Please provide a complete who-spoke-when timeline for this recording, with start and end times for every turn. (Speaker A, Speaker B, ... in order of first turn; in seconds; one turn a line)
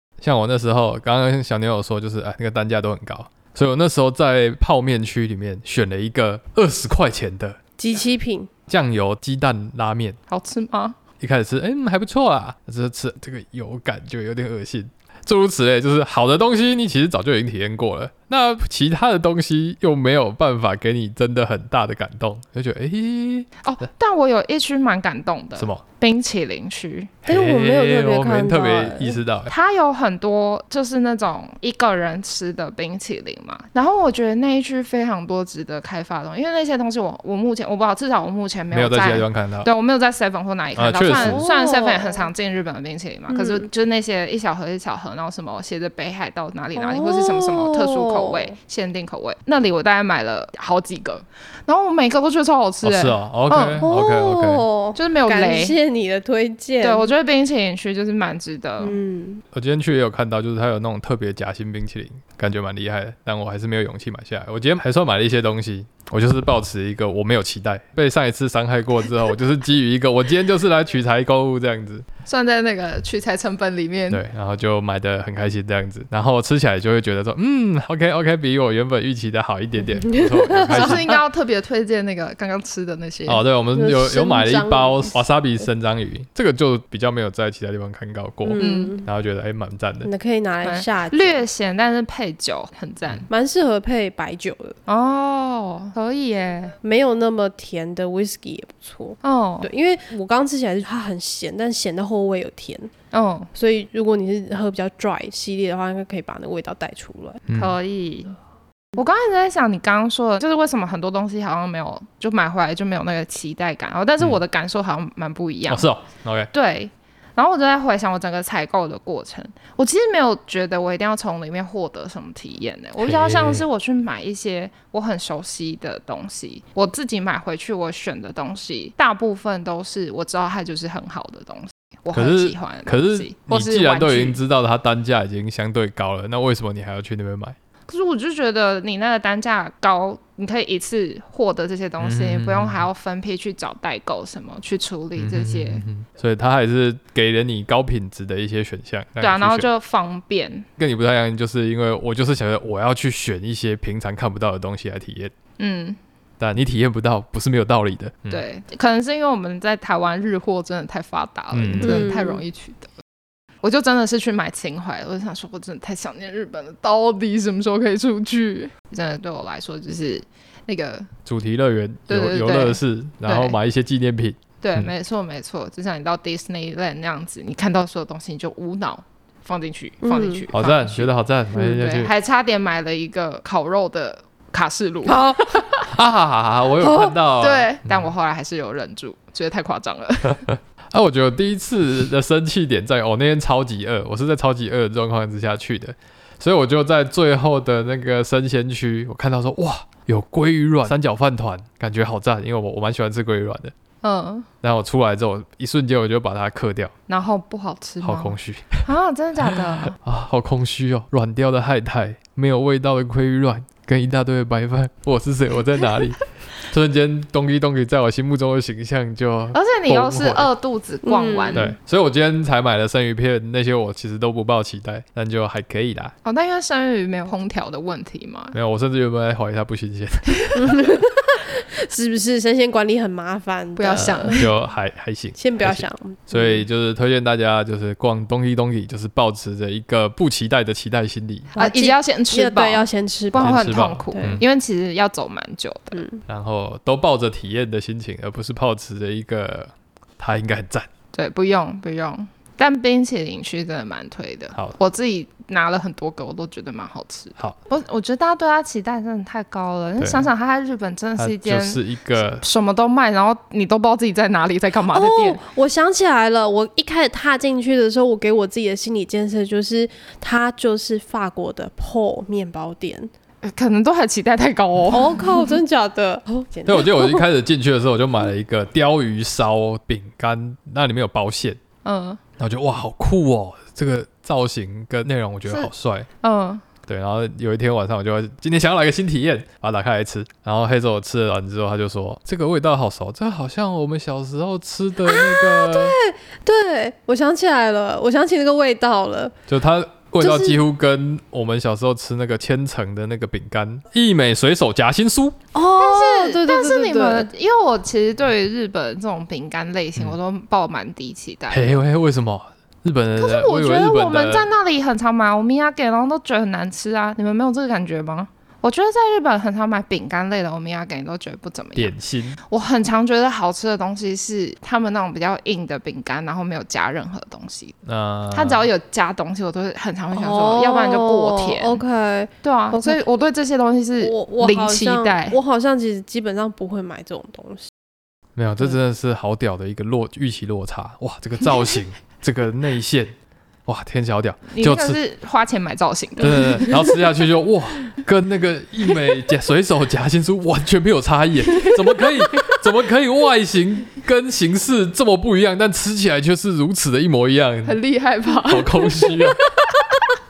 Speaker A: 0.2-7.6
Speaker B: 7.8-8.5
Speaker A: 8.7-10.2
Speaker C: 10.3-11.0
Speaker A: 11.2-23.6
Speaker C: 23.6-27.1
Speaker A: 27.2-29.5
Speaker B: 27.3-29.2
Speaker C: 29.5-53.9
Speaker A: 38.7-39.7
Speaker A: 40.8-41.4
Speaker B: 41.1-42.2
Speaker B: 43.3-43.7
Speaker B: 46.8-48.5
Speaker A: 52.8-54.7
Speaker B: 53.8-57.1
Speaker C: 55.0-55.8
Speaker C: 56.8-59.0
Speaker B: 58.8-59.4
Speaker A: 59.5-72.0
Speaker C: 72.3-74.2
Speaker A: 74.1-81.2
Speaker B: 79.9-81.1
Speaker C: 80.7-83.4
Speaker A: 83.3-90.1
Speaker B: 83.7-85.7
Speaker B: 88.4-89.1
Speaker C: 88.6-88.9
Speaker B: 90.0-91.4
Speaker C: 90.6-93.3
Speaker B: 93.3-94.8
Speaker C: 94.9-96.8
Speaker B: 96.8-102.9
Speaker C: 99.2-99.7
Speaker C: 103.1-103.5
Speaker B: 103.5-107.4
Speaker A: 107.5-107.8
Speaker C: 107.5-108.3
Speaker C: 109.0-115.9
Speaker A: 115.7-116.5
Speaker C: 116.5-134.4
Speaker A: 123.0-123.7
Speaker A: 132.1-137.6
Speaker C: 137.9-145.8
Speaker A: 142.0-142.8
Speaker A: 145.2-149.7
Speaker C: 149.2-150.7
Speaker A: 150.8-155.3
Speaker C: 155.6-156.0
Speaker A: 156.4-158.4
Speaker C: 158.3-162.9
Speaker A: 161.5-162.1
Speaker B: 161.8-162.4
Speaker C: 163.6-171.1
Speaker A: 171.2-174.9
Speaker C: 172.1-173.6
Speaker C: 174.6-185.8
Speaker B: 180.0-180.4
Speaker A: 180.5-182.1
Speaker B: 185.1-185.6
Speaker A: 185.9-188.1
Speaker B: 186.8-187.2
Speaker C: 187.4-190.5
Speaker A: 190.9-203.7
Speaker C: 204.0-204.5
Speaker A: 204.6-206.9
Speaker C: 207.1-210.0
Speaker A: 208.0-208.9
Speaker A: 209.5-220.5
Speaker C: 219.5-221.7
Speaker B: 221.0-221.7
Speaker A: 221.5-226.1
Speaker C: 226.2-228.6
Speaker A: 228.5-230.9
Speaker B: 230.6-234.5
Speaker C: 233.8-234.5
Speaker A: 234.3-241.5
Speaker B: 235.4-236.7
Speaker B: 241.6-244.4
Speaker C: 241.6-246.0
Speaker A: 243.4-244.4
Speaker B: 245.9-246.2
Speaker A: 246.3-250.9
Speaker C: 251.1-265.4
Speaker A: 260.0-260.3
Speaker A: 261.2-262.4
Speaker B: 264.9-273.1
Speaker C: 273.4-275.5
Speaker B: 274.9-277.2
Speaker A: 276.7-281.6
Speaker C: 281.8-282.2
Speaker A: 282.4-286.1
Speaker C: 286.2-286.6
Speaker A: 286.9-296.0
Speaker B: 295.1-299.4
Speaker A: 299.5-305.4
Speaker B: 300.2-300.6
Speaker B: 305.5-307.3
Speaker C: 305.8-311.8
Speaker A: 311.5-314.5
Speaker C: 313.2-321.9
Speaker A: 321.8-322.4
Speaker C: 322.5-327.8
Speaker A: 327.9-328.7
Speaker C: 328.3-331.8
Speaker B: 330.1-333.0
Speaker C: 332.4-335.4
Speaker B: 334.0-337.7
Speaker A: 338.4-343.1
Speaker A: 343.7-345.0
Speaker C: 344.5-346.8
Speaker A: 346.2-357.8
Speaker C: 357.6-359.3
Speaker A: 358.3-359.4